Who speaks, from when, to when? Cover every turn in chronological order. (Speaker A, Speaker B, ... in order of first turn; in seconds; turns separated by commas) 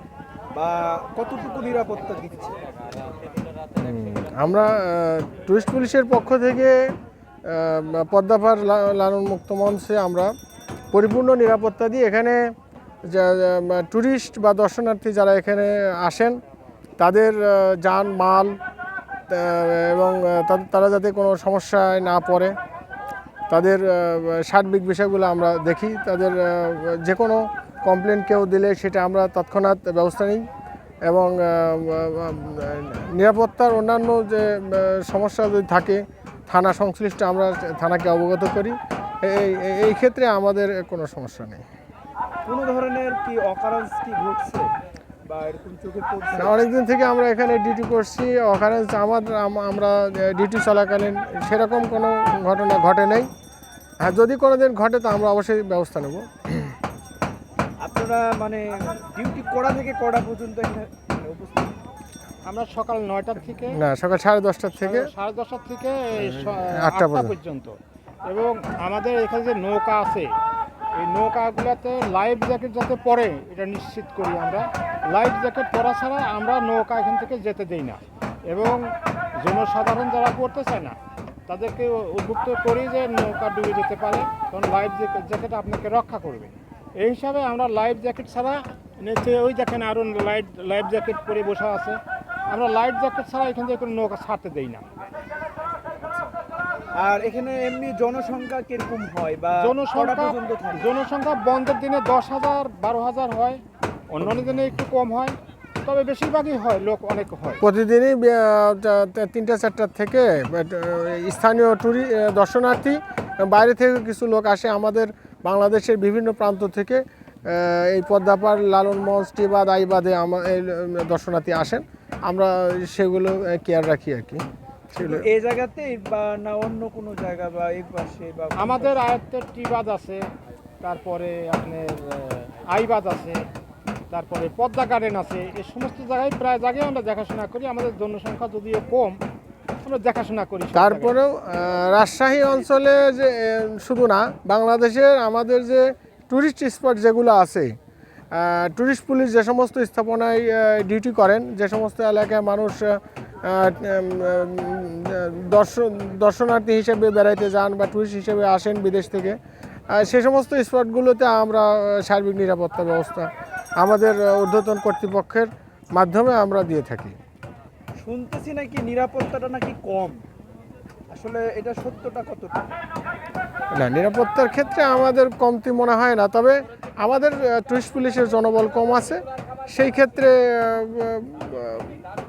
Speaker A: 0.5-2.6, Speaker B: 3.8-6.8, Speaker B: 7.5-10.3, Speaker B: 10.9-12.5, Speaker B: 13.1-16.4, Speaker B: 17.0-18.5, Speaker B: 19.3-22.5, Speaker B: 23.5-30.4, Speaker B: 31.1-41.6, Speaker A: 42.5-44.7, Speaker A: 45.3-46.6, Speaker B: 46.4-53.3, Speaker B: 54.0-56.7, Speaker A: 57.8-61.8, Speaker C: 62.5-63.8, Speaker B: 63.7-65.1, Speaker C: 64.7-67.8, Speaker B: 66.2-67.4, Speaker C: 68.3-70.3, Speaker C: 71.0-81.0, Speaker C: 81.5-94.8, Speaker A: 96.0-96.3, Speaker A: 97.0-100.9, Speaker C: 99.6-107.6, Speaker B: 104.2-104.7, Speaker B: 107.6-124.4, Speaker B: 125.0-125.3, Speaker A: 125.0-129.0, Speaker C: 128.6-130.2, Speaker C: 130.8-133.4, Speaker C: 134.1-139.2, Speaker C: 139.8-141.2, Speaker B: 140.7-147.8, Speaker B: 148.3-159.4, Speaker B: 159.9-163.3, Speaker B: 163.8-167.2, Speaker A: 168.0-170.2, Speaker A: 171.1-172.6, Speaker B: 173.8-181.9